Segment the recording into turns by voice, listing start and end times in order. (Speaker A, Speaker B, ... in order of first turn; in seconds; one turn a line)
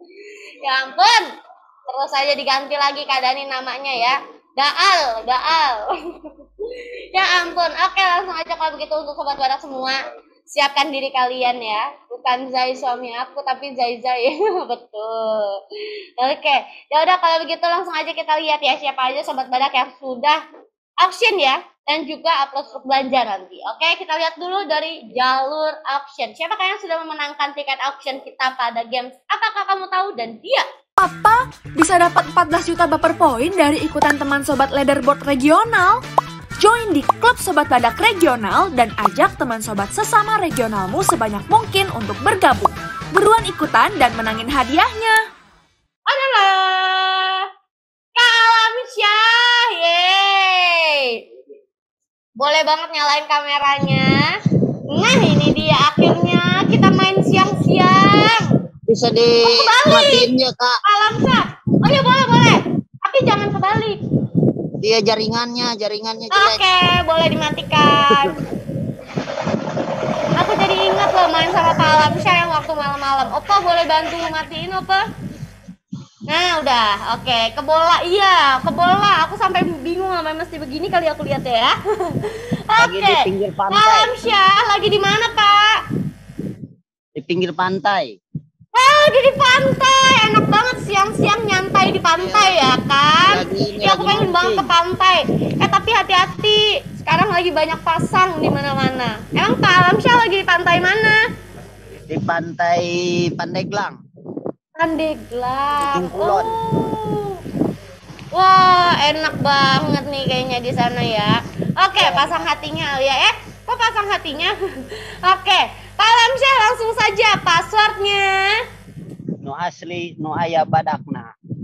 Speaker A: 0.6-1.3
Speaker A: 1.9-6.0
Speaker A: 7.1-15.6
Speaker A: 16.2-20.4
Speaker A: 21.0-30.6
Speaker B: 31.0-36.0
Speaker B: 36.6-45.2
Speaker A: 46.1-47.5
Speaker A: 48.2-51.2
Speaker A: 52.4-54.4
Speaker A: 54.9-58.5
Speaker C: 58.9-60.8
Speaker A: 59.4-60.3
Speaker A: 60.8-64.0
Speaker C: 64.8-66.6
Speaker A: 66.3-68.4
Speaker A: 70.4-75.0
Speaker A: 76.3-85.8
Speaker C: 82.8-84.1
Speaker C: 87.2-88.2
Speaker A: 88.7-101.2
Speaker C: 92.2-92.6
Speaker C: 93.3-94.7
Speaker C: 102.1-104.0
Speaker A: 104.8-107.4
Speaker C: 105.8-106.6
Speaker A: 108.3-118.6
Speaker C: 112.0-112.3
Speaker C: 119.4-121.3